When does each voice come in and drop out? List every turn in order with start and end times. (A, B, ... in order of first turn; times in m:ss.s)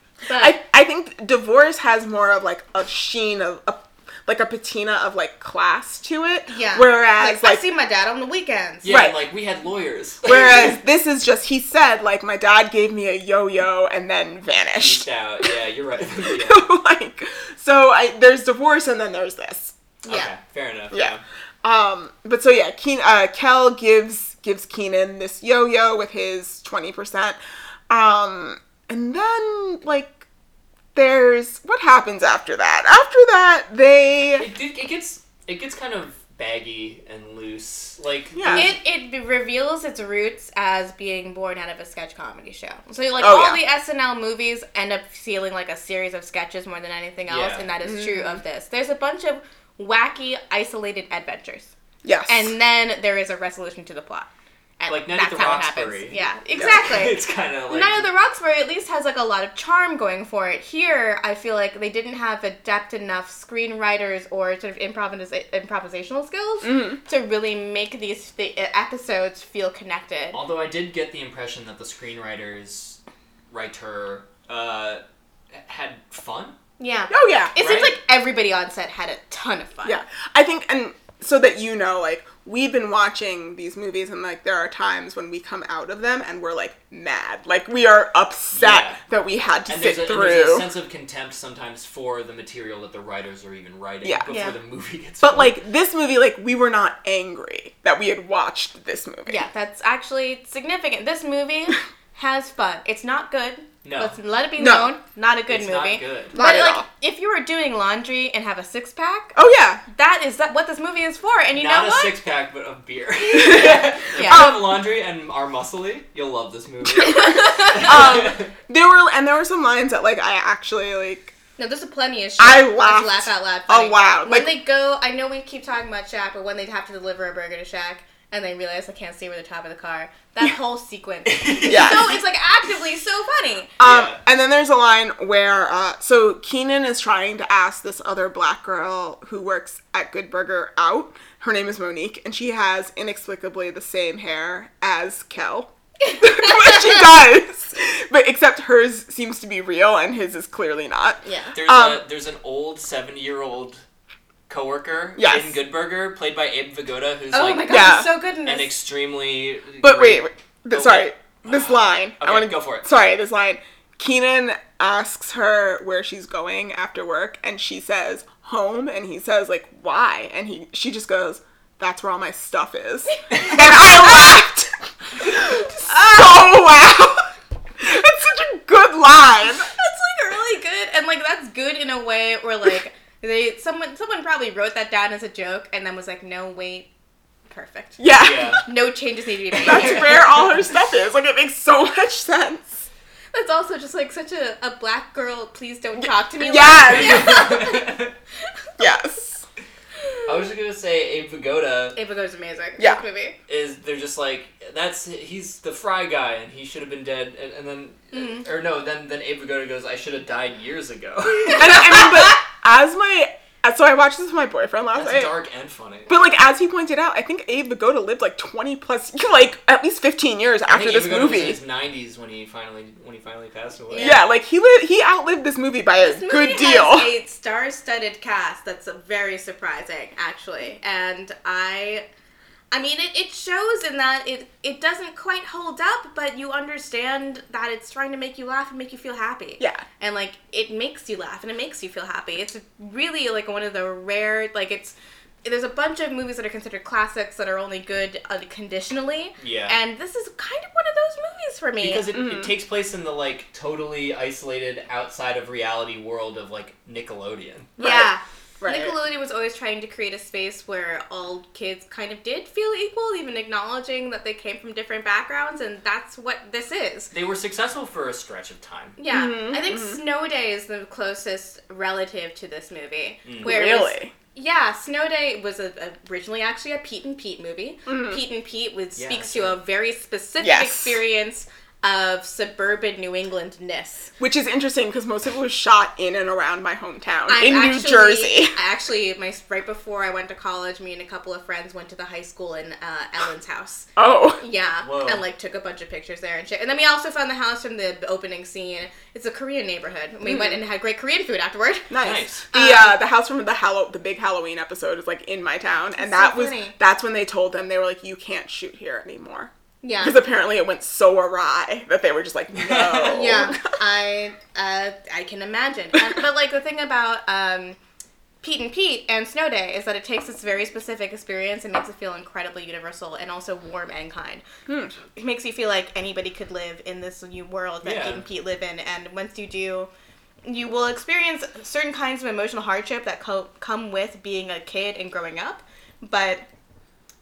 0:00.3-0:00.6 A
0:00.3-0:07.6 B
0:06.5-0:08.9 A
0:08.8-0:10.8 C
0:08.8-0:09.2 B
0:10.2-0:15.6 B
0:14.7-0:16.6 C
0:16.2-0:19.8 B
0:20.0-0:21.2 C
0:20.9-0:27.4 B
0:27.9-0:30.2 B
0:30.9-0:34.5 B
0:34.4-0:38.7 C
0:38.3-0:38.7 B
0:38.5-0:51.7 A
0:43.2-0:43.6 B
0:47.3-0:47.7 C
0:47.8-0:48.4 B
0:52.0-0:52.5 B
0:52.3-0:54.3 A
0:54.8-1:10.4 A
0:54.9-0:58.1 C
1:06.6-1:07.0 B
1:10.3-1:13.0 C
1:13.5-1:16.6 C
1:16.8-1:20.0 A
1:17.1-1:17.5 B
1:17.6-1:17.9 C
1:19.8-1:30.7 B
1:28.5-1:29.0 C
1:29.7-1:35.6 C
1:34.3-1:34.5 A
1:35.2-1:39.4 B
1:39.3-1:49.4 A
1:43.8-1:44.2 C
1:44.6-1:44.9 B
1:45.5-1:46.4 C
1:46.3-1:46.8 B
1:49.3-1:49.8 B
1:49.9-1:52.2 A
1:51.5-1:58.5 C
1:53.3-1:54.8 B
1:54.1-1:54.5 A
1:57.0-1:58.1 A
1:57.0-2:01.3 B
2:01.6-2:13.8 A
2:02.4-2:04.5 B
2:11.3-2:12.1 C
2:11.6-2:12.2 B
2:13.8-2:32.0 B
2:13.8-2:14.2 C
2:26.0-2:27.0 A
2:31.2-2:31.5 A
2:31.5-2:33.8 C
2:34.5-2:42.9 C
2:35.2-2:35.6 B
2:37.3-2:38.7 A
2:37.7-2:38.1 B
2:39.8-2:57.3 B
2:53.2-2:54.4 A
2:53.3-2:53.7 C
2:55.8-2:56.4 A
2:57.8-2:59.7 B
2:59.7-3:06.9 A
3:07.5-3:08.1 A
3:08.0-3:08.6 B
3:08.2-3:08.6 C
3:08.6-3:10.3 A
3:09.6-3:12.9 B
3:09.6-3:10.5 C
3:13.3-3:17.9 A
3:16.0-3:17.5 B
3:16.8-3:18.1 C
3:18.8-3:19.4 B
3:20.2-3:22.0 C
3:22.0-3:23.4 A
3:23.5-3:32.1 C
3:28.1-3:28.4 A
3:31.5-3:35.3 B
3:34.9-3:36.2 C
3:36.1-3:41.6 B
3:40.7-3:44.2 C
3:43.9-3:44.2 A
3:44.0-3:47.1 B
3:46.0-3:52.0 A
3:52.7-4:12.1 A
4:09.4-4:09.8 C
4:11.8-4:17.7 C
4:12.1-4:12.5 B
4:17.8-4:18.9 B
4:17.8-4:27.1 A
4:27.1-4:29.0 C
4:29.0-4:44.1 A
4:29.1-4:30.0 B
4:33.2-4:33.6 C
4:33.4-4:34.1 B
4:37.9-4:38.2 B
4:39.0-4:39.6 C
4:40.4-4:41.0 B
4:44.2-4:48.6 B
4:47.3-4:53.9 A
4:54.0-4:54.4 B
4:54.4-5:01.9 A
4:54.8-4:55.2 C
5:00.2-5:00.6 B
5:01.9-5:13.7 B
5:02.0-5:02.5 C
5:02.5-5:03.0 A
5:06.0-5:06.7 A
5:09.8-5:10.2 A
5:12.5-5:13.5 C
5:13.1-5:17.8 A
5:18.4-5:24.4 A
5:24.7-5:25.0 B
5:25.1-5:29.9 A
5:27.8-5:28.2 C
5:30.4-5:36.4 A